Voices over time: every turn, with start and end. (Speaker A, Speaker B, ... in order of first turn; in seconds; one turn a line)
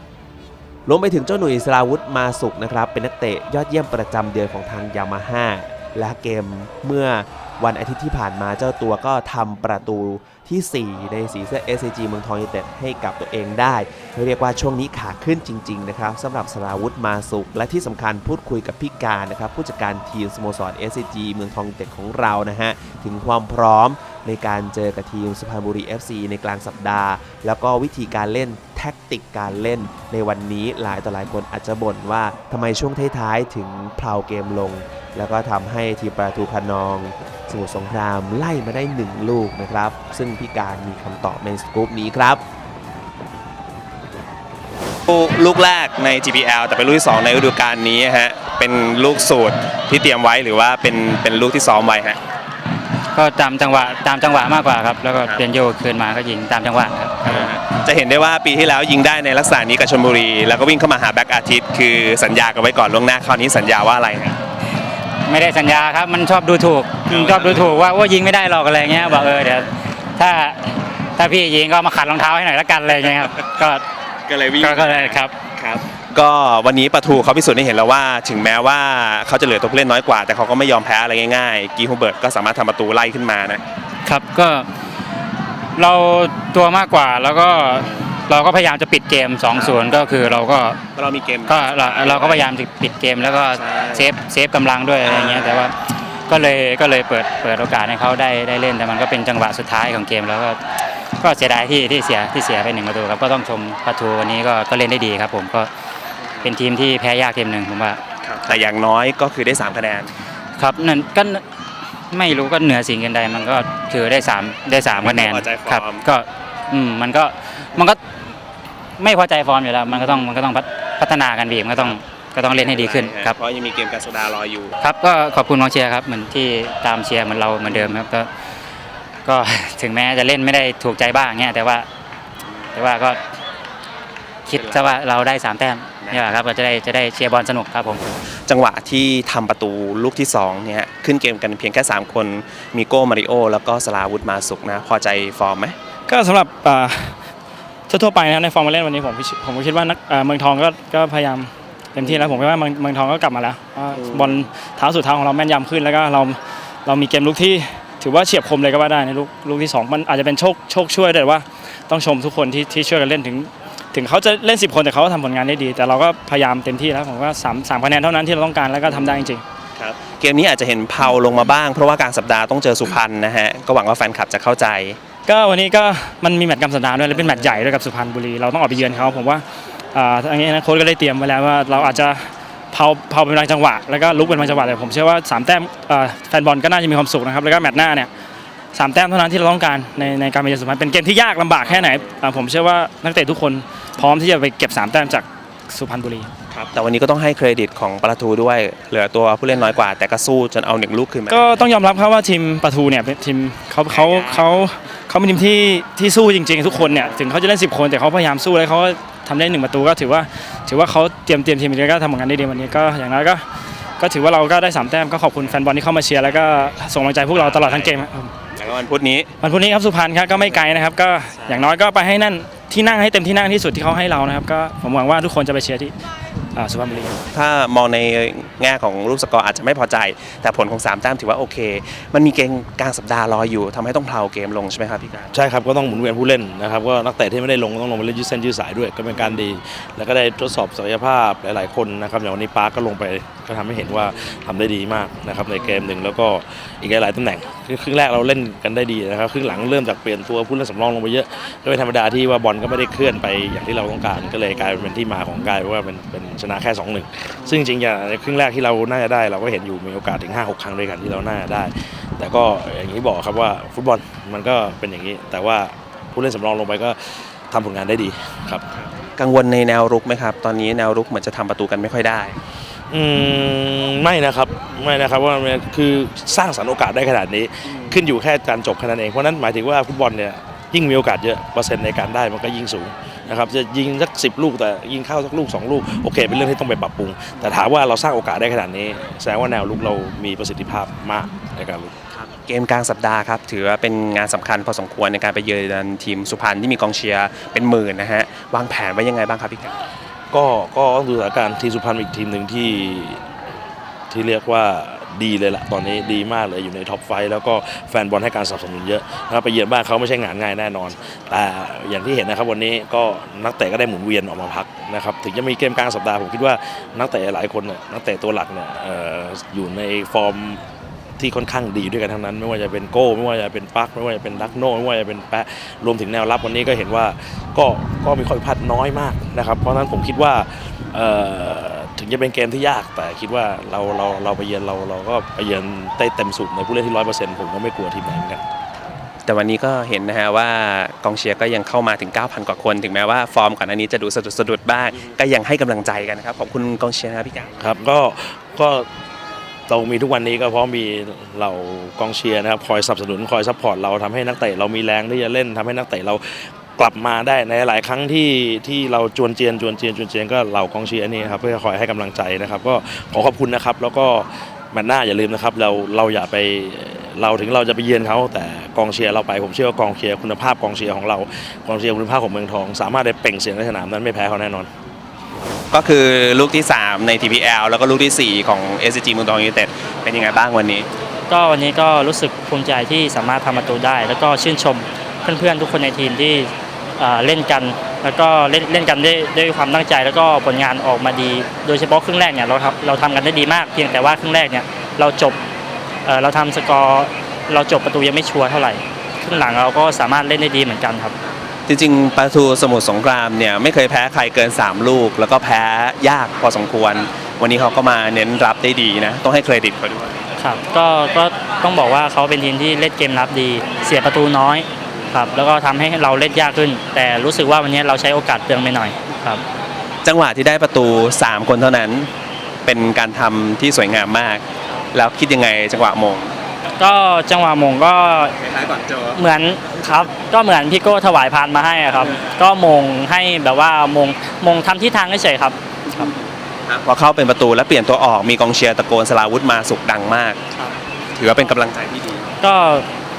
Speaker A: 0.8-42.4
Speaker B: 45.1-52.2
Speaker C: 53.1-57.6
Speaker B: 53.7-55.4
Speaker B: 57.2-64.4
Speaker C: 65.2-70.6
Speaker B: 67.1-68.0
Speaker B: 69.0-69.7
Speaker C: 71.2-73.8
Speaker B: 74.3-83.6
Speaker C: 74.6-75.3
Speaker C: 84.0-84.7
Speaker C: 85.8-90.8
Speaker B: 87.5-88.0
Speaker B: 89.5-90.0
Speaker B: 90.9-92.5
Speaker C: 91.5-95.8
Speaker B: 93.5-94.1
Speaker B: 95.0-95.7
Speaker C: 96.3-100.6
Speaker C: 101.2-105.7
Speaker B: 106.2-106.6
Speaker C: 106.4-108.0
Speaker B: 108.2-110.1
Speaker C: 110.6-111.4
Speaker C: 112.1-118.0
Speaker B: 114.8-116.0
Speaker C: 119.0-123.3
Speaker B: 119.8-120.3
Speaker B: 121.7-122.0
Speaker B: 122.5-124.7
Speaker C: 124.8-128.3
Speaker B: 127.7-128.0
Speaker C: 129.2-131.9
Speaker B: 132.5-132.8
Speaker C: 132.7-133.2
Speaker C: 134.4-138.1
Speaker B: 134.5-134.9
Speaker B: 138.4-145.8
Speaker D: 146.1-147.2
Speaker D: 147.9-169.4
Speaker B: 152.0-152.4
Speaker B: 153.9-154.4
Speaker B: 169.8-175.0
Speaker D: 175.3-188.1
Speaker D: 188.7-196.3
Speaker B: 191.7-192.0
Speaker B: 196.5-201.5
Speaker D: 201.3-213.4
Speaker B: 203.9-204.5
Speaker B: 206.7-207.2
Speaker D: 214.0-218.3
Speaker B: 217.4-218.0
Speaker B: 218.5-219.3
Speaker D: 219.4-225.9
Speaker B: 221.4-221.7
Speaker D: 226.5-227.1
Speaker B: 227.3-235.3
Speaker E: 235.3-268.6
Speaker B: 268.7-272.4
Speaker E: 272.9-291.9
Speaker B: 277.6-278.0
Speaker B: 287.3-287.6
Speaker B: 292.1-299.8
Speaker E: 300.3-303.2
Speaker E: 304.1-320.6
Speaker E: 321.2-338.4
Speaker B: 339.2-347.7
Speaker E: 347.6-348.9
Speaker E: 349.7-374.7
Speaker B: 375.7-380.9
Speaker F: 381.3-395.4
Speaker F: 396.1-401.1
Speaker B: 401.7-410.2
Speaker F: 410.4-419.4
Speaker B: 414.9-415.1
Speaker B: 420.0-422.1
Speaker B: 422.6-426.3
Speaker F: 426.8-428.3
Speaker B: 428.4-429.2
Speaker F: 429.1-436.0
Speaker B: 435.9-440.4
Speaker B: 441.1-442.3
Speaker F: 442.4-442.9